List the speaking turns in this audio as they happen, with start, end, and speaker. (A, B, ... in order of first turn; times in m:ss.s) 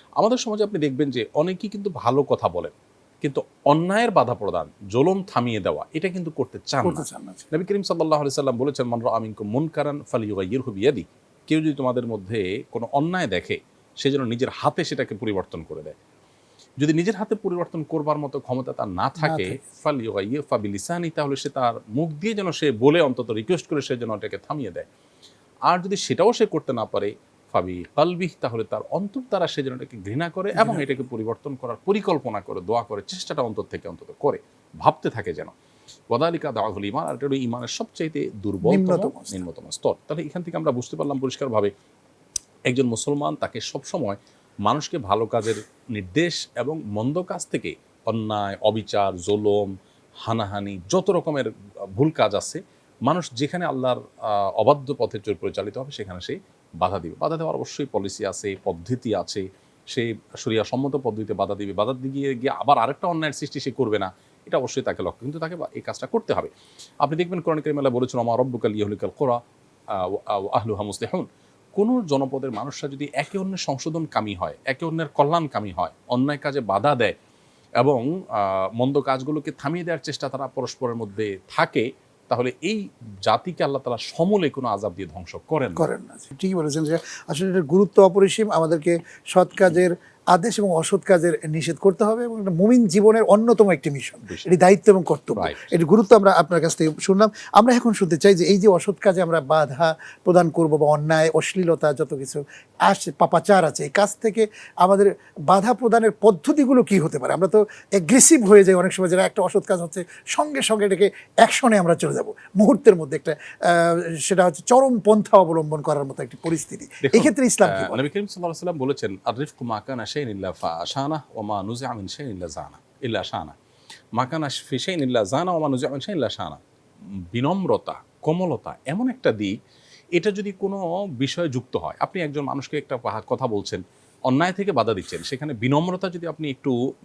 0:00.2-0:15.9 A
0:06.8-0:07.4 B
0:16.8-0:24.9 A
0:19.2-0:19.6 B
0:25.7-0:35.5 A
0:30.6-0:30.8 B
0:36.1-0:41.7 A
0:38.6-0:39.4 B
0:42.7-1:06.5 A
1:07.0-1:09.4 A
1:09.9-1:11.2 A
1:11.8-1:17.1 A
1:17.8-1:25.9 A
1:25.8-1:58.0 B
1:35.4-1:35.7 A
1:57.0-2:03.6 A
2:04.2-2:06.6 A
2:07.3-2:09.6 A
2:10.1-2:16.7 A